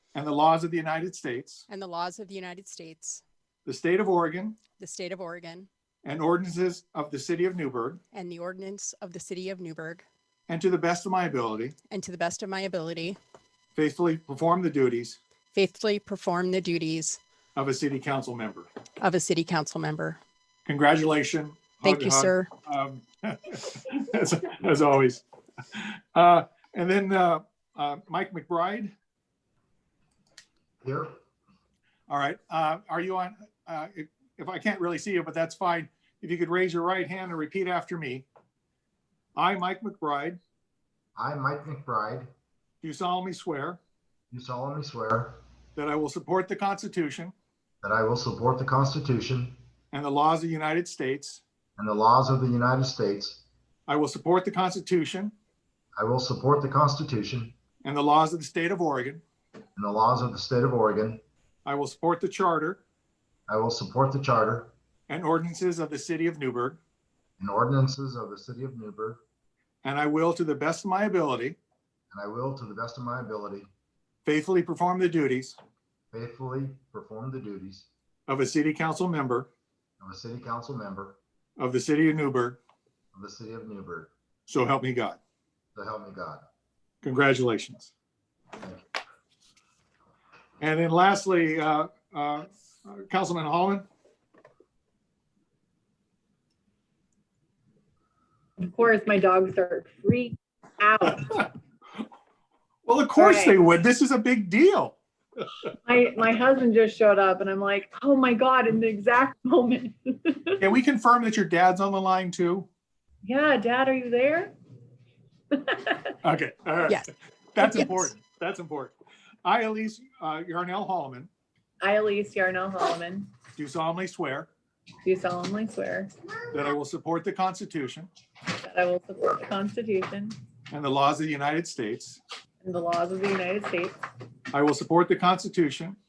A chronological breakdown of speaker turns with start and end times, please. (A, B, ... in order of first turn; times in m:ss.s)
0:00.1-0:01.7 A
0:01.7-0:03.2 B
0:03.7-0:04.6 A
0:04.8-0:05.7 B
0:06.0-0:08.0 A
0:08.1-0:10.1 B
0:10.5-0:11.8 A
0:11.9-0:13.2 B
0:13.8-0:15.2 A
0:15.5-0:17.2 B
0:17.6-0:18.7 A
0:19.0-0:20.2 B
0:20.7-0:28.9 A
0:21.8-0:22.5 B
0:30.8-0:31.2 C
0:32.1-0:38.2 A
0:39.4-0:40.4 A
0:41.2-0:42.3 C
0:42.8-0:43.8 A
0:44.3-0:45.4 C
0:45.8-0:47.3 A
0:47.8-0:49.6 C
0:49.9-0:51.4 A
0:51.8-0:53.4 C
0:53.9-0:55.3 A
0:56.0-0:57.6 C
0:57.8-0:59.2 A
0:59.8-1:01.2 C
1:01.6-1:02.8 A
1:03.5-1:04.7 C
1:05.1-1:06.8 A
1:07.4-1:09.2 C
1:09.8-1:11.6 A
1:12.1-1:13.7 C
1:14.2-1:15.6 A
1:16.1-1:17.9 C
1:18.3-1:19.5 A
1:20.0-1:21.2 C
1:21.6-1:22.6 A
1:23.1-1:24.1 C
1:24.5-1:25.2 A
1:25.8-1:26.4 C
1:27.0-1:27.9 A
1:30.6-1:33.8 A
1:38.6-1:41.5 D
1:42.8-1:45.0 A
1:43.2-1:43.6 D
1:45.8-1:50.6 D
1:50.6-1:52.7 A
1:53.2-1:54.5 D
1:55.5-1:56.1 D
1:56.2-1:57.0 A
1:57.6-2:01.3 A
1:57.6-1:58.1 B
2:01.8-2:03.3 D
2:03.6-2:04.5 A
2:05.0-2:06.1 D
2:06.5-2:08.1 A
2:08.6-2:10.4 D
2:10.7-2:12.2 A
2:12.6-2:14.0 D
2:14.5-2:16.0 A